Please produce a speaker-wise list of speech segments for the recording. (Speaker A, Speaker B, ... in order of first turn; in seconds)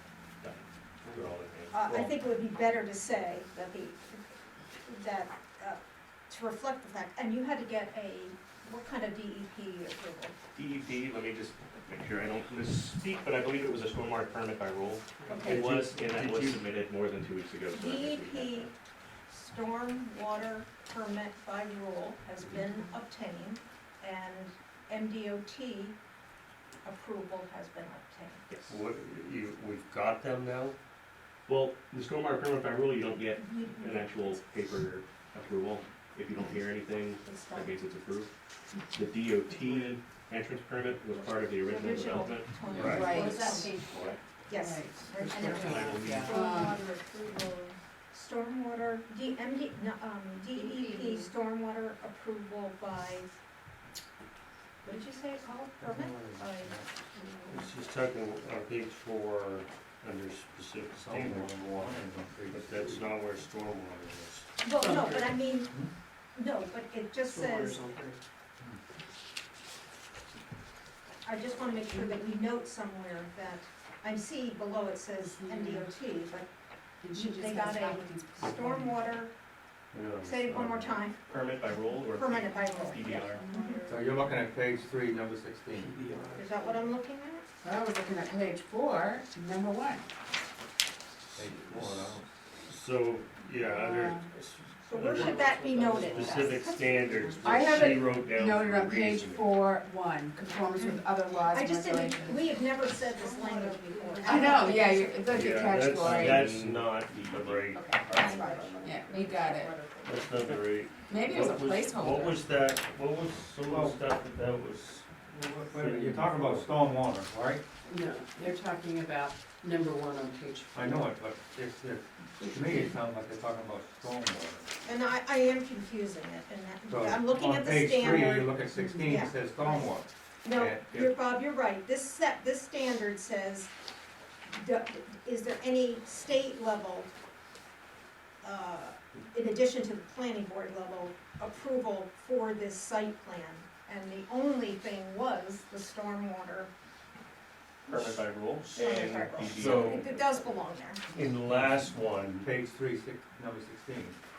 Speaker A: 0.4-2.1, 10.6-18.7, 28.5-28.8, 31.5-38.3, 38.9-43.1, 43.8-44.2, 45.5-46.4, 81.3-83.5, 105.8-108.8, 147.9-150.5
Speaker B: 1.7-10.3, 15.3-15.7, 17.7-18.7, 19.3-25.9, 26.8-28.4, 33.4-34.2, 37.2-37.8, 39.5-39.9, 41.1-53.3, 54.8-57.7, 64.6-65.8, 66.3-67.8, 71.2-76.5, 77.1-79.3, 80.2-81.2, 82.1-83.9, 86.3-87.5, 94.8-97.8, 100.8-105.8, 107.8-110.3, 124.8-129.9, 130.4-133.7, 134.5-137.1, 138.4-146.7, 148.7-151.0
Speaker C: 15.3-16.6, 28.7-30.8, 42.7-43.1, 57.5-64.5, 79.9-81.0, 91.3-99.6, 105.3-108.3, 110.0-115.1, 115.7-116.7, 149.4-150.1, 151.1-152.5
Speaker D: 42.7-44.2, 45.1-46.4, 50.5-51.3, 67.3-68.2, 82.7-84.0, 86.1-87.0, 95.0-96.6, 103.0-104.9, 108.1-108.9, 117.9-121.0
Speaker E: 42.9-43.6, 44.5-45.1, 46.2-46.8, 71.9-72.2, 75.2-75.9, 77.0-79.1, 83.5-83.8, 87.6-90.0, 93.7-94.3, 97.4-102.6, 104.2-106.5, 108.8-109.7, 111.0-112.5
Speaker F: 55.8-56.9, 61.1-63.1, 65.7-65.9, 83.9-86.0, 91.3-92.2, 113.6-114.0, 115.3-117.6, 120.7-124.7, 126.9-131.2, 152.4-154.2